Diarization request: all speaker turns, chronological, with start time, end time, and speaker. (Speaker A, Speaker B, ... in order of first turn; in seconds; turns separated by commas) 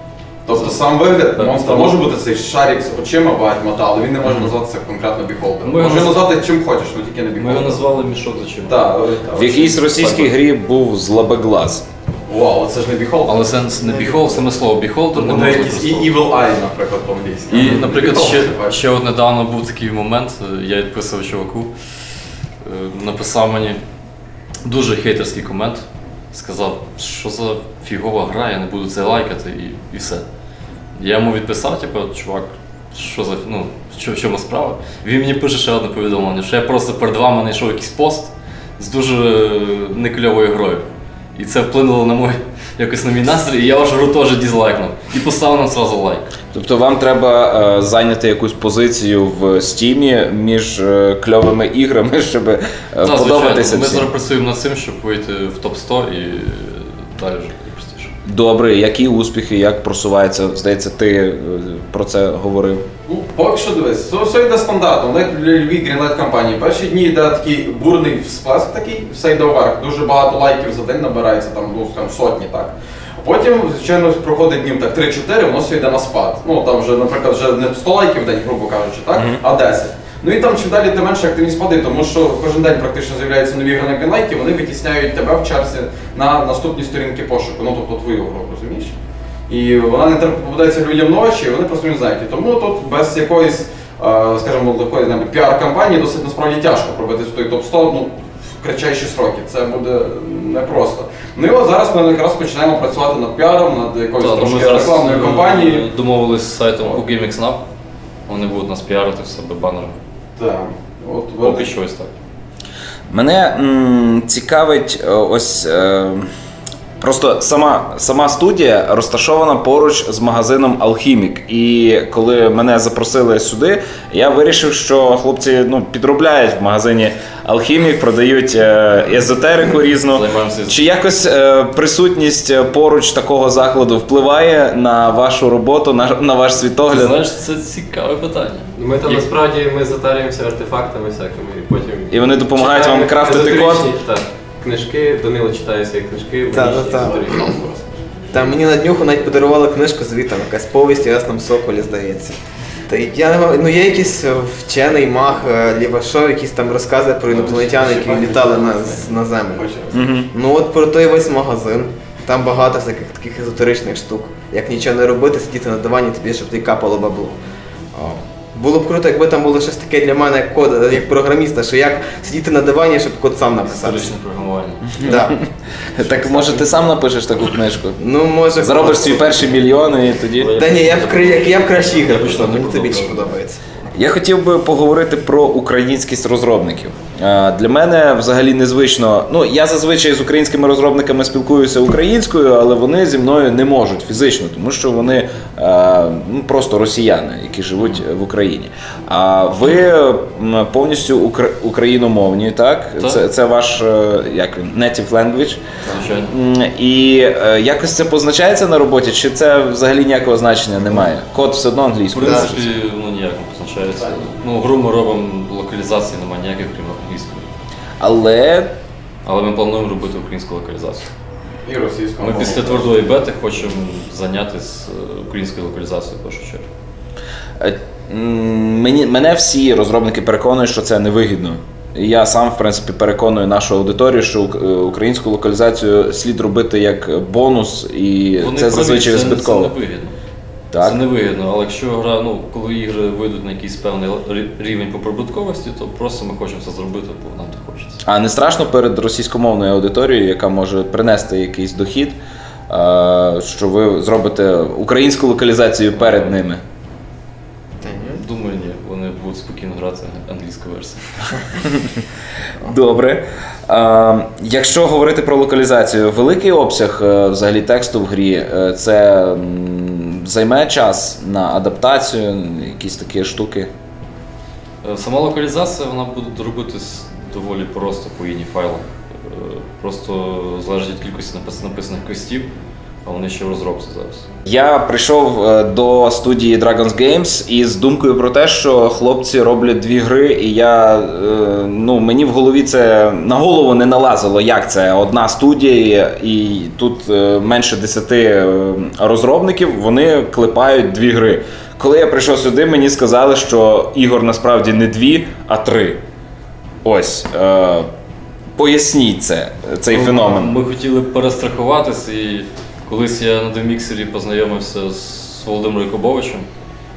Speaker A: 0.5-7.8, Speaker B: 0.5-0.8, Speaker B: 1.4-2.0, Speaker B: 5.6-6.2, Speaker B: 7.4-8.9, Speaker A: 8.7-10.3, Speaker C: 9.3-11.8, Speaker A: 12.3-13.5, Speaker B: 13.3-16.1, Speaker A: 15.1-18.8, Speaker B: 17.5-21.7, Speaker B: 22.6-23.8, Speaker B: 24.6-30.3, Speaker B: 30.9-46.3, Speaker C: 46.5-54.1, Speaker B: 53.0-58.1, Speaker C: 58.3-62.9, Speaker A: 63.1-89.0, Speaker C: 79.2-79.4, Speaker A: 89.5-105.9, Speaker B: 104.2-107.6, Speaker B: 108.3-110.0, Speaker A: 110.4-111.7, Speaker B: 111.4-112.1, Speaker C: 113.1-116.3, Speaker C: 117.0-137.2, Speaker B: 130.1-130.8, Speaker B: 136.9-139.2, Speaker D: 138.8-147.9, Speaker C: 142.1-144.0, Speaker E: 146.5-147.5, Speaker A: 147.0-147.6, Speaker E: 148.3-152.4, Speaker E: 152.9-159.7, Speaker A: 157.3-158.3, Speaker D: 157.5-159.1, Speaker A: 159.5-160.0, Speaker C: 159.9-160.3, Speaker E: 160.3-167.4, Speaker E: 168.0-174.1, Speaker B: 173.7-175.1, Speaker E: 175.0-175.4, Speaker C: 175.0-178.0, Speaker E: 176.2-176.6, Speaker E: 178.0-179.5, Speaker C: 178.6-180.6, Speaker B: 180.3-183.4, Speaker E: 180.5-183.6, Speaker C: 183.9-212.7, Speaker B: 205.9-206.3, Speaker B: 212.1-217.5, Speaker E: 212.2-212.5, Speaker C: 218.0-218.7, Speaker B: 219.2-221.1, Speaker A: 221.7-222.9, Speaker B: 222.2-226.7, Speaker C: 227.6-239.7, Speaker B: 238.4-240.2, Speaker C: 240.7-241.0, Speaker B: 240.8-248.0, Speaker C: 248.0-252.2, Speaker C: 252.7-256.6, Speaker B: 256.0-256.3, Speaker E: 257.8-258.2, Speaker B: 257.9-261.4, Speaker C: 261.7-262.0, Speaker C: 262.6-273.7, Speaker B: 274.8-282.5, Speaker B: 283.1-284.3, Speaker C: 284.5-306.0, Speaker C: 306.8-307.9, Speaker C: 308.6-310.6, Speaker B: 309.9-316.5